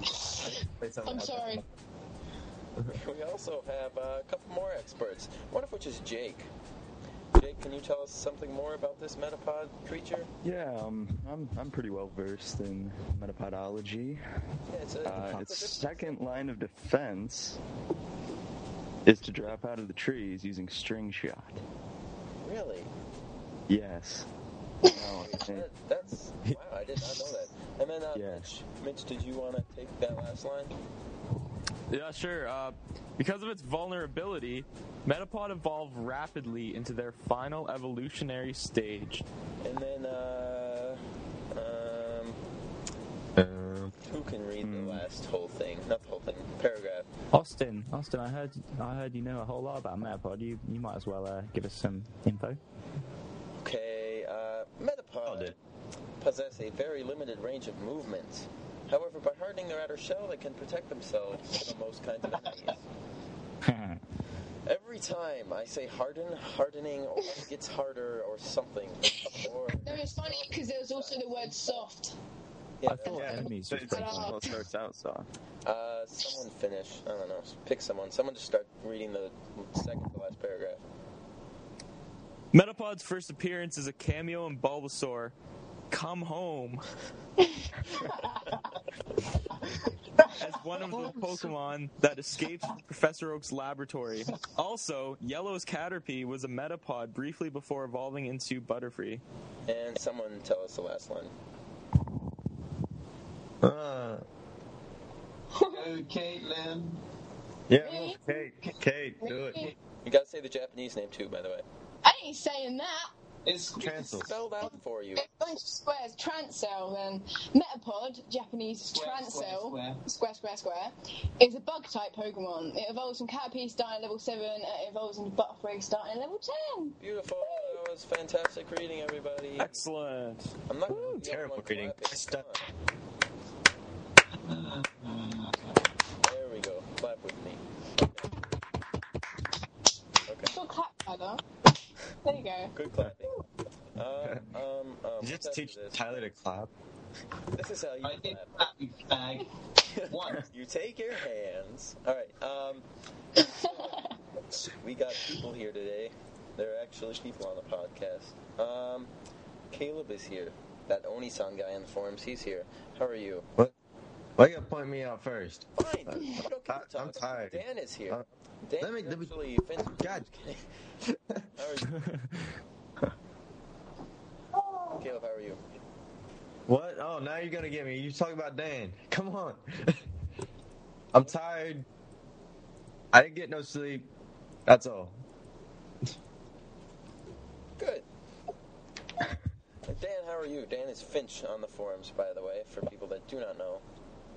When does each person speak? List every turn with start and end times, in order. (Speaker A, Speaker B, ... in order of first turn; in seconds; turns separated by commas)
Speaker A: 0.7-1.7, Speaker B: 1.1-1.6, Speaker C: 2.9-6.5, Speaker C: 7.3-10.3, Speaker D: 10.4-14.2, Speaker C: 14.7-16.4, Speaker D: 15.0-17.6, Speaker A: 15.1-15.5, Speaker D: 19.1-21.6, Speaker C: 22.4-22.9, Speaker D: 23.7-24.3, Speaker D: 24.9-25.7, Speaker C: 25.2-30.7, Speaker D: 28.1-28.5, Speaker E: 31.9-39.3, Speaker C: 39.6-41.0, Speaker C: 41.5-42.4, Speaker A: 43.4-43.9, Speaker C: 44.0-47.1, Speaker D: 44.6-45.0, Speaker F: 47.3-52.6, Speaker C: 53.6-55.6, Speaker A: 55.2-55.6, Speaker C: 56.2-62.8, Speaker F: 63.6-64.0, Speaker C: 64.7-71.8, Speaker B: 69.8-72.2, Speaker C: 72.8-73.3, Speaker F: 72.9-74.4, Speaker A: 73.0-73.7, Speaker B: 73.1-74.6, Speaker D: 73.7-75.3, Speaker C: 75.7-80.8, Speaker E: 82.5-85.3, Speaker E: 85.9-86.8, Speaker B: 87.9-88.5, Speaker E: 90.3-99.2, Speaker C: 99.7-101.3, Speaker A: 103.6-104.2, Speaker B: 105.5-105.9, Speaker G: 105.7-107.0, Speaker A: 107.7-109.7, Speaker B: 107.8-108.2, Speaker B: 109.2-109.7, Speaker C: 110.0-111.7, Speaker B: 112.0-113.1, Speaker G: 113.5-114.3, Speaker A: 113.8-114.4, Speaker C: 114.2-115.3, Speaker B: 114.6-127.8, Speaker G: 118.9-120.0, Speaker C: 127.0-129.8, Speaker E: 129.6-131.1, Speaker C: 130.7-132.7, Speaker A: 131.1-132.5, Speaker G: 134.4-135.8, Speaker C: 136.2-138.3, Speaker C: 140.3-140.6, Speaker B: 140.5-141.4, Speaker B: 142.2-142.7, Speaker C: 142.7-146.3, Speaker A: 145.2-146.7, Speaker C: 147.5-148.7, Speaker G: 148.0-149.5, Speaker C: 149.8-154.0, Speaker G: 150.1-150.4, Speaker B: 153.4-154.2, Speaker C: 154.7-159.1, Speaker C: 159.7-163.5, Speaker A: 164.4-168.2, Speaker C: 165.8-170.6, Speaker A: 168.8-169.3, Speaker A: 169.9-170.3, Speaker A: 171.1-171.4, Speaker C: 171.6-172.0, Speaker C: 175.0-175.6, Speaker A: 176.7-180.1, Speaker A: 181.1-181.9, Speaker A: 183.1-184.1, Speaker A: 184.7-185.2, Speaker C: 187.8-188.1, Speaker C: 189.8-193.8